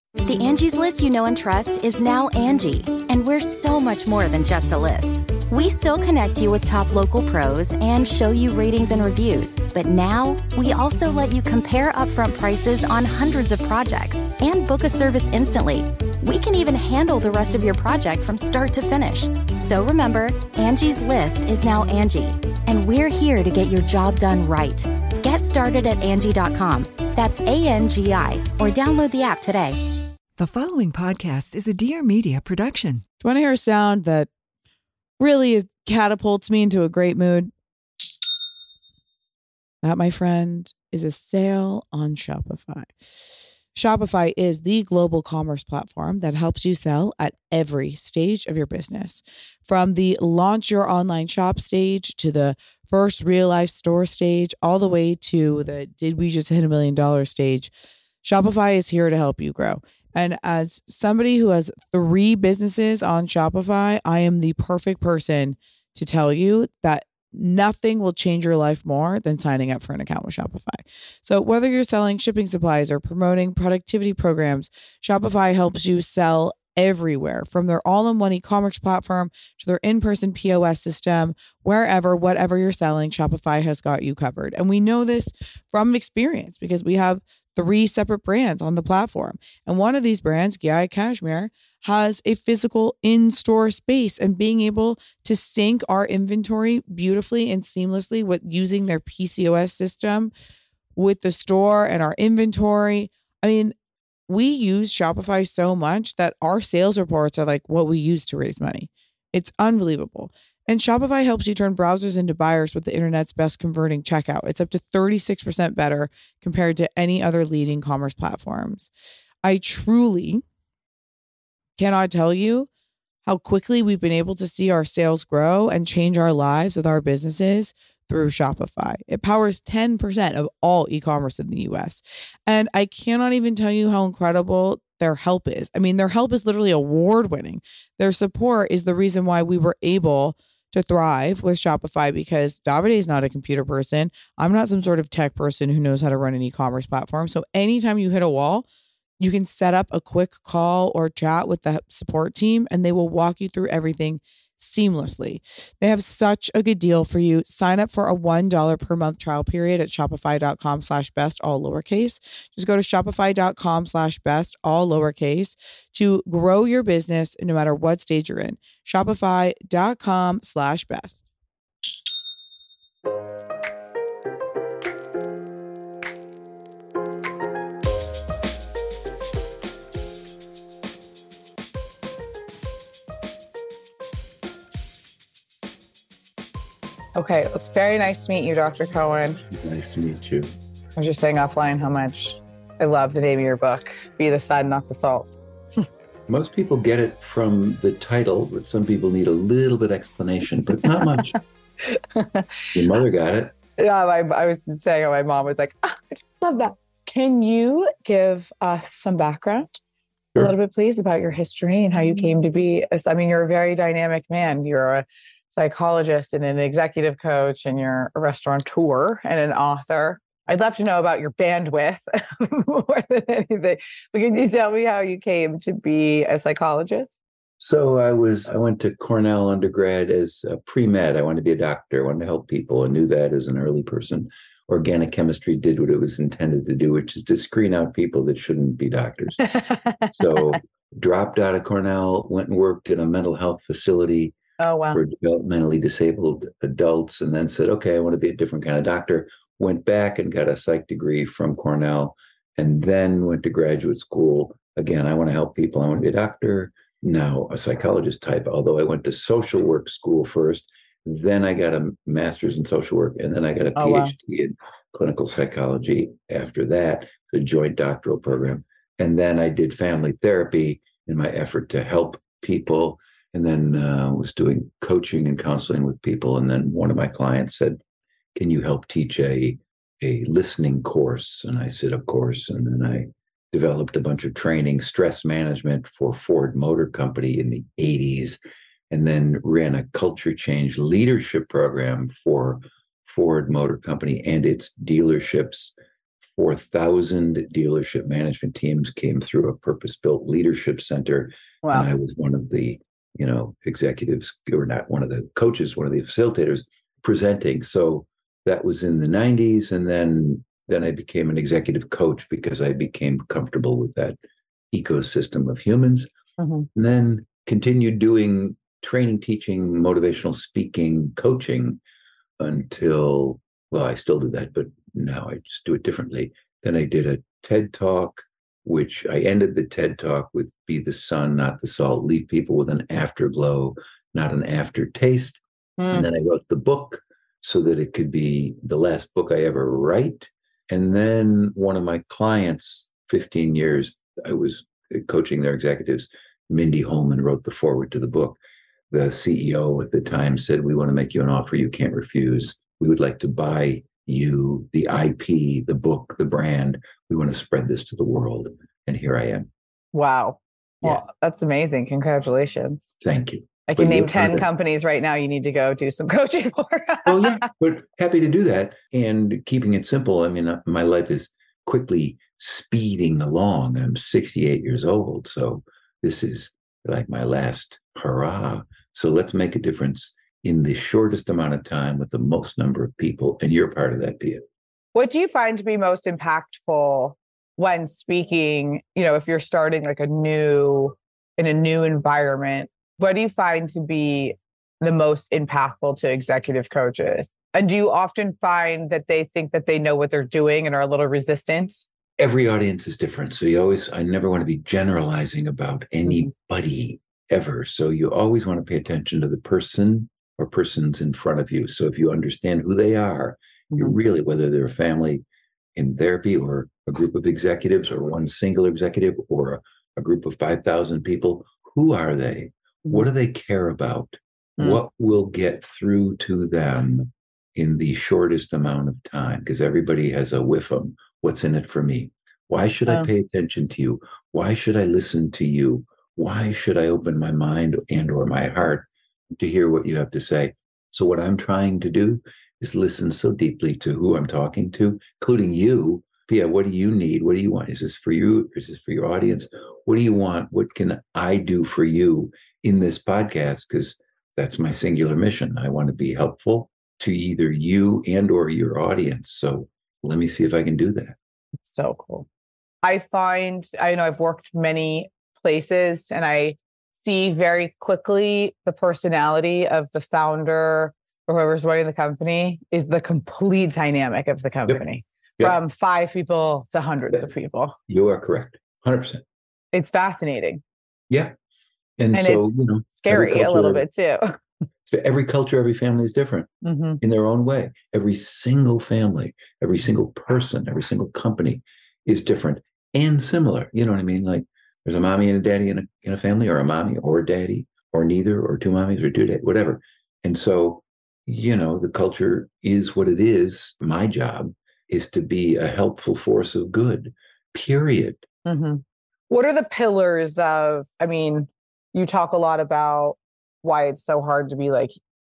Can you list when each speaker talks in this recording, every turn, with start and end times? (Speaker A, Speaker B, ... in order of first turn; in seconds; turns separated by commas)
Speaker A: 0.2-29.8, Speaker B: 30.4-33.0, Speaker C: 33.2-34.3, Speaker C: 35.2-37.5, Speaker C: 39.8-42.9, Speaker C: 43.8-57.7, Speaker C: 58.2-100.3, Speaker C: 101.0-103.7, Speaker C: 104.3-118.9, Speaker C: 119.4-120.4, Speaker C: 121.8-122.7, Speaker C: 123.3-148.7, Speaker C: 149.2-171.2, Speaker C: 187.2-189.4, Speaker D: 189.5-190.5, Speaker C: 191.0-195.4, Speaker D: 196.3-201.4, Speaker C: 201.9-202.5, Speaker D: 202.7-203.5, Speaker C: 203.8-209.8, Speaker C: 210.4-227.2, Speaker D: 227.6-239.4, Speaker C: 239.4-240.6, Speaker D: 240.2-244.4, Speaker C: 244.6-245.0, Speaker D: 244.9-277.8, Speaker C: 263.8-264.1, Speaker D: 278.4-288.4, Speaker D: 288.9-295.7, Speaker D: 296.3-314.2, Speaker D: 314.7-316.1, Speaker C: 316.4-316.7, Speaker D: 316.8-321.8, Speaker D: 322.4-348.4, Speaker C: 335.8-336.1, Speaker D: 348.9-359.5, Speaker C: 359.9-362.9, Speaker D: 363.0-364.5, Speaker C: 363.7-367.4, Speaker D: 367.1-384.4, Speaker C: 384.9-401.9, Speaker D: 402.2-415.2, Speaker D: 415.8-461.2, Speaker C: 461.6-462.3, Speaker C: 462.8-477.8, Speaker D: 477.9-479.2, Speaker C: 479.7-480.6, Speaker D: 482.0-483.8, Speaker C: 482.1-484.4, Speaker D: 484.9-486.5, Speaker C: 486.6-487.0, Speaker D: 487.0-508.3, Speaker C: 508.4-515.0